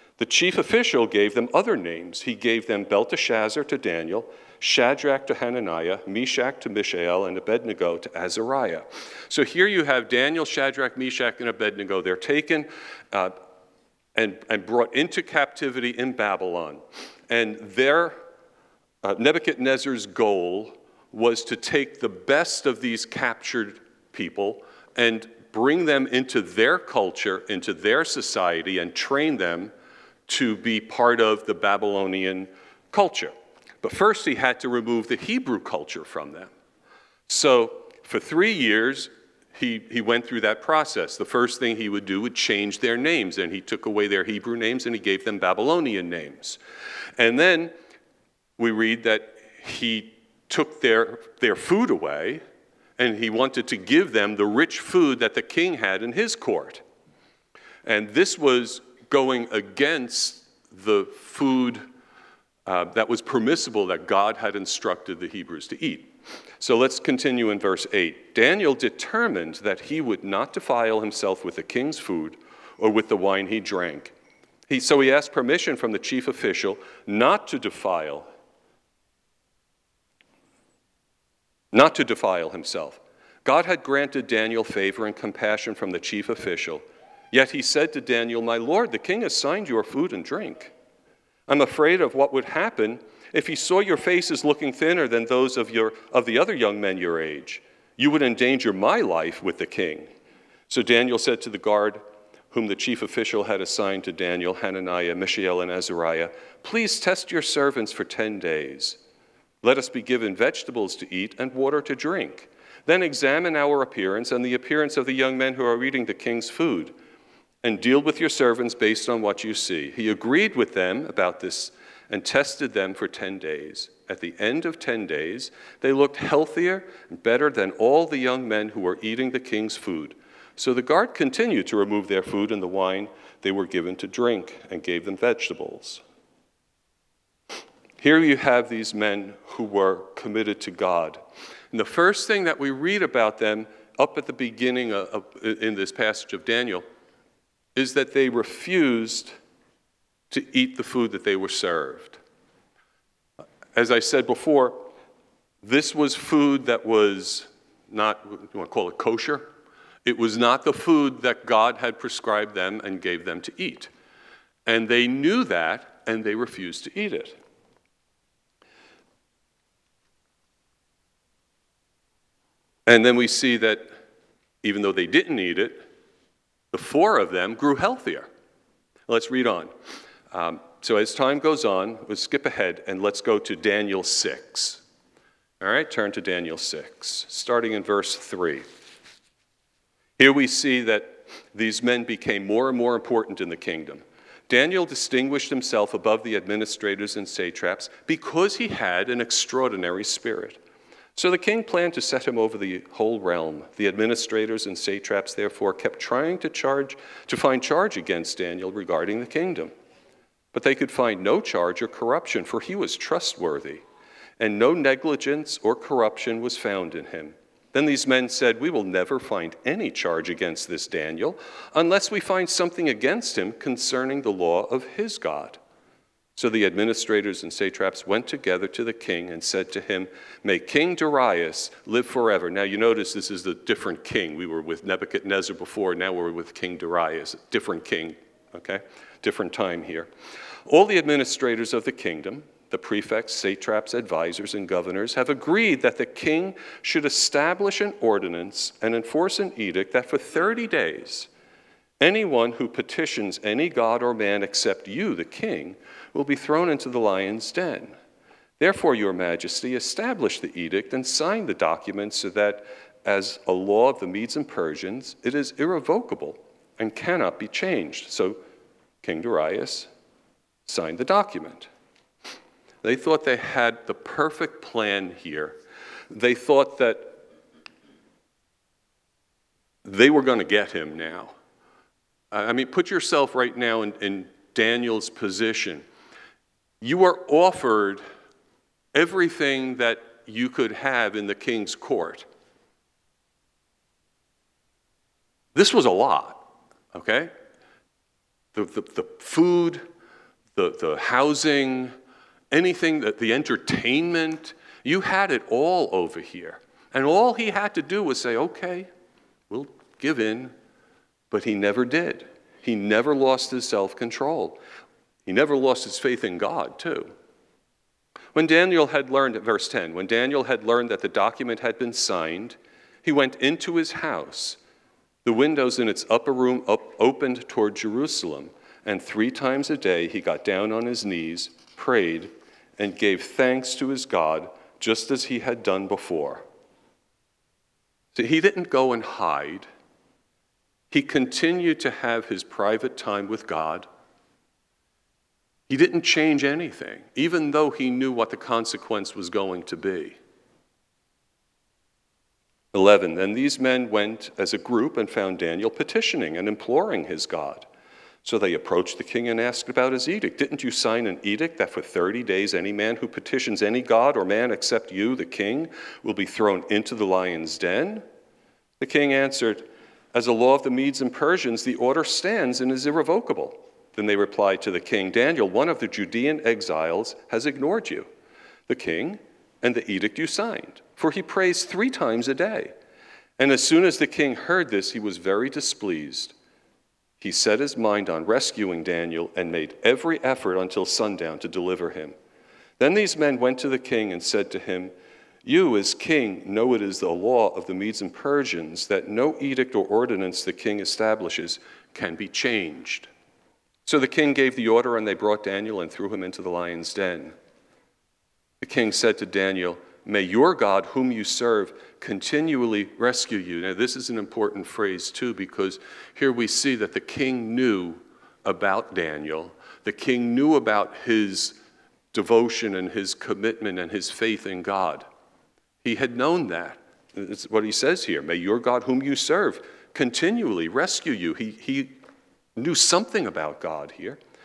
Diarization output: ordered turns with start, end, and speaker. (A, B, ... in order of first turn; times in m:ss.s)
0:00.2-0:13.4 A
0:14.2-0:18.2 A
0:19.0-0:29.7 A
0:30.3-0:36.5 A
0:37.3-0:46.6 A
0:47.2-0:47.7 A
0:48.6-0:52.4 A
0:53.0-0:56.8 A
0:57.8-1:01.8 A
1:02.7-1:14.1 A
1:14.7-1:18.3 A
1:21.7-1:30.7 A
1:31.5-1:40.1 A
1:40.7-1:49.0 A
1:49.6-1:56.9 A
1:57.6-2:16.0 A
2:18.0-2:26.8 A
2:27.8-2:29.3 A
2:30.3-2:32.2 A
2:33.8-2:34.9 A
2:35.6-2:39.5 A
2:40.0-2:43.9 A
2:44.7-2:47.4 A
2:52.9-2:53.9 A
2:54.6-2:55.9 A
2:56.7-2:58.3 A
2:59.1-2:59.7 A
3:00.3-3:04.8 A
3:05.6-3:08.6 A
3:10.2-3:20.6 A
3:21.2-3:29.7 A
3:30.5-3:33.8 A
3:34.4-3:45.6 A
3:46.4-4:00.1 A
4:00.7-4:11.3 A
4:12.0-4:18.0 A
4:18.6-4:28.4 A
4:29.0-4:29.9 A
4:30.7-4:31.7 A
4:32.8-4:35.6 A
4:36.1-4:37.2 A
4:39.8-4:41.3 A
4:42.3-4:45.9 A
4:46.8-4:48.0 A
4:48.9-4:52.3 A
4:55.6-4:57.3 A
4:58.5-4:59.8 A
5:00.6-5:01.9 A
5:02.5-5:08.9 A
5:09.5-5:10.5 A
5:11.3-5:14.6 A
5:15.3-5:17.1 A
5:18.4-5:24.6 A
5:25.2-5:36.4 A
5:38.2-5:39.7 A
5:40.9-5:43.9 A
5:45.7-5:50.2 A
5:52.7-5:57.7 A
5:58.2-6:08.0 A
6:08.8-6:18.1 A
6:18.7-6:22.7 A
6:23.4-6:26.3 A
6:27.2-6:32.1 A
6:32.8-6:34.9 A
6:35.4-6:43.1 A
6:43.9-6:47.3 A
6:48.6-7:01.6 A
7:02.1-7:05.0 A
7:05.8-7:12.0 A
7:12.6-7:14.2 A